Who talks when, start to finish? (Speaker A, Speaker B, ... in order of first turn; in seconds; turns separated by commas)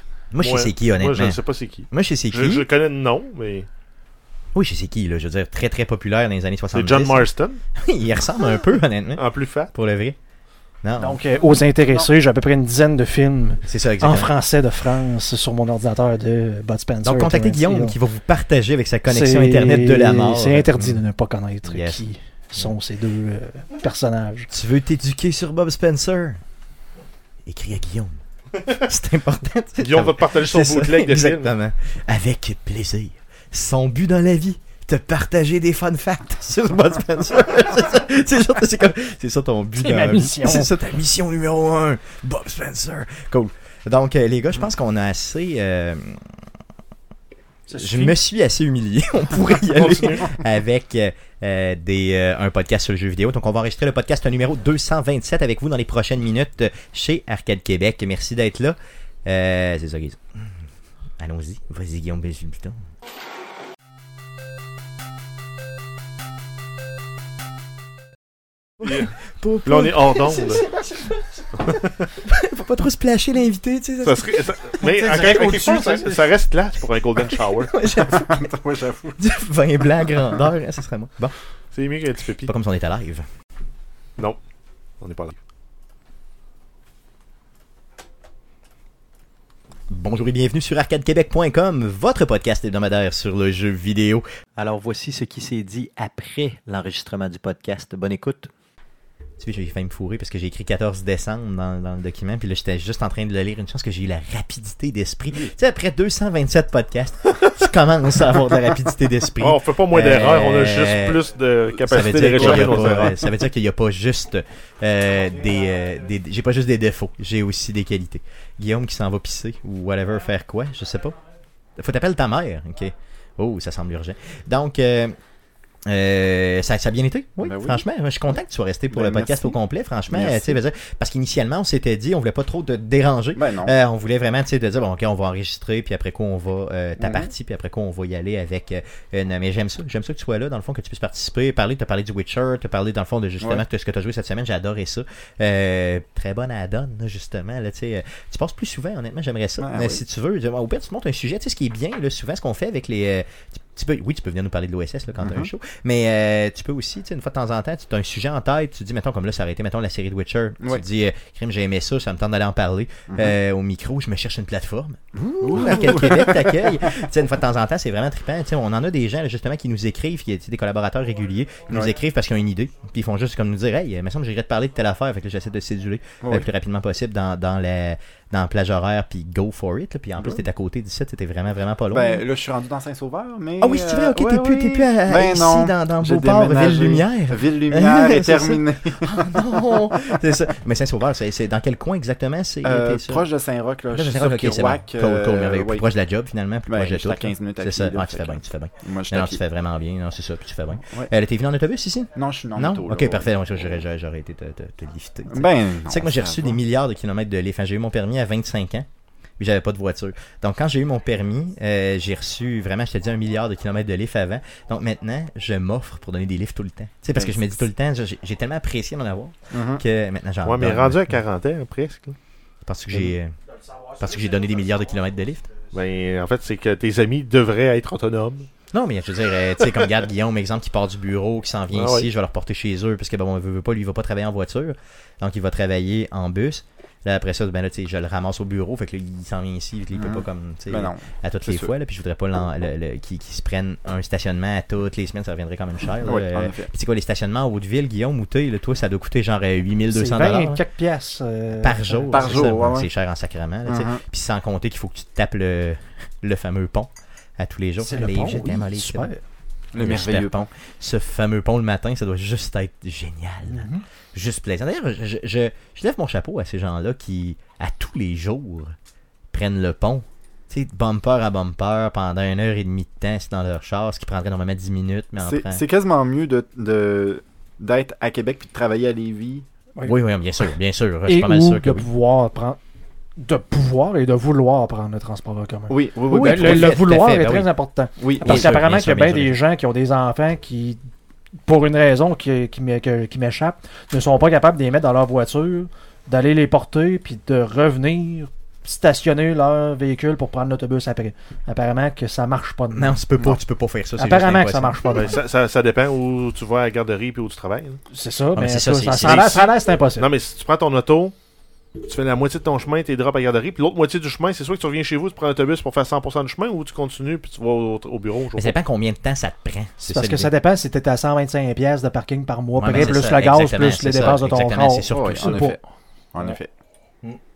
Speaker A: 0.3-2.7, Speaker B: 0.4-3.7, Speaker A: 4.5-7.3, Speaker B: 6.7-7.6, Speaker A: 7.8-10.2, Speaker B: 9.2-9.7, Speaker A: 10.8-11.2, Speaker C: 11.0-18.0, Speaker A: 13.6-14.3, Speaker A: 17.0-21.0, Speaker C: 19.1-24.5, Speaker A: 21.6-22.7, Speaker A: 24.5-26.4, Speaker A: 27.4-46.2, Speaker B: 29.8-31.5, Speaker C: 39.8-40.7, Speaker C: 47.7-48.1, Speaker A: 47.7-60.2, Speaker B: 49.7-50.4, Speaker A: 61.2-62.8, Speaker A: 68.8-76.2, Speaker B: 68.8-69.1, Speaker B: 69.7-70.7, Speaker B: 71.6-71.9, Speaker B: 74.0-77.7, Speaker C: 75.0-75.8, Speaker A: 77.2-78.5, Speaker D: 77.9-79.2, Speaker A: 79.2-81.3, Speaker B: 81.7-82.5, Speaker A: 82.4-83.2, Speaker B: 85.0-85.3, Speaker A: 89.9-94.2, Speaker E: 94.6-98.5, Speaker A: 99.4-111.2, Speaker B: 109.4-113.2, Speaker A: 111.8-121.2, Speaker D: 112.4-113.1, Speaker A: 121.8-125.1, Speaker A: 125.9-182.2, Speaker D: 127.4-127.8, Speaker D: 128.9-130.6, Speaker D: 133.3-133.7, Speaker D: 137.0-137.3, Speaker D: 149.6-150.0, Speaker D: 155.2-155.5, Speaker D: 163.1-163.3, Speaker D: 165.2-166.5, Speaker D: 176.2-176.5, Speaker D: 181.9-189.6, Speaker A: 183.6-193.2, Speaker D: 192.6-195.8, Speaker A: 193.9-208.9, Speaker D: 196.7-199.4, Speaker D: 200.8-201.1, Speaker D: 202.1-203.8, Speaker D: 205.3-206.6, Speaker A: 209.4-221.0, Speaker D: 217.1-217.6, Speaker D: 219.5-219.8, Speaker B: 220.4-222.2, Speaker A: 222.6-223.3, Speaker A: 223.9-225.5, Speaker B: 225.7-228.5, Speaker A: 228.7-250.6, Speaker B: 231.7-232.1, Speaker D: 239.9-241.7, Speaker D: 246.0-246.7, Speaker C: 249.9-252.4, Speaker A: 251.5-259.1, Speaker D: 252.1-252.9, Speaker D: 253.7-254.0, Speaker C: 257.8-259.2, Speaker D: 259.7-260.5, Speaker A: 259.8-268.7, Speaker C: 263.5-263.8, Speaker A: 269.3-275.6, Speaker D: 275.2-279.5, Speaker A: 279.8-281.9, Speaker C: 281.1-282.6, Speaker C: 283.2-290.8, Speaker D: 285.7-286.7, Speaker A: 286.1-287.5, Speaker D: 288.0-288.4, Speaker A: 288.2-289.4, Speaker C: 291.4-303.4, Speaker A: 302.7-304.9, Speaker C: 304.0-305.1, Speaker B: 304.9-307.8, Speaker C: 307.9-310.1, Speaker A: 308.3-309.3, Speaker B: 309.0-311.1, Speaker B: 311.8-318.5, Speaker A: 318.3-320.3, Speaker C: 319.9-325.6, Speaker A: 322.5-325.5, Speaker D: 324.9-325.6, Speaker D: 326.1-326.5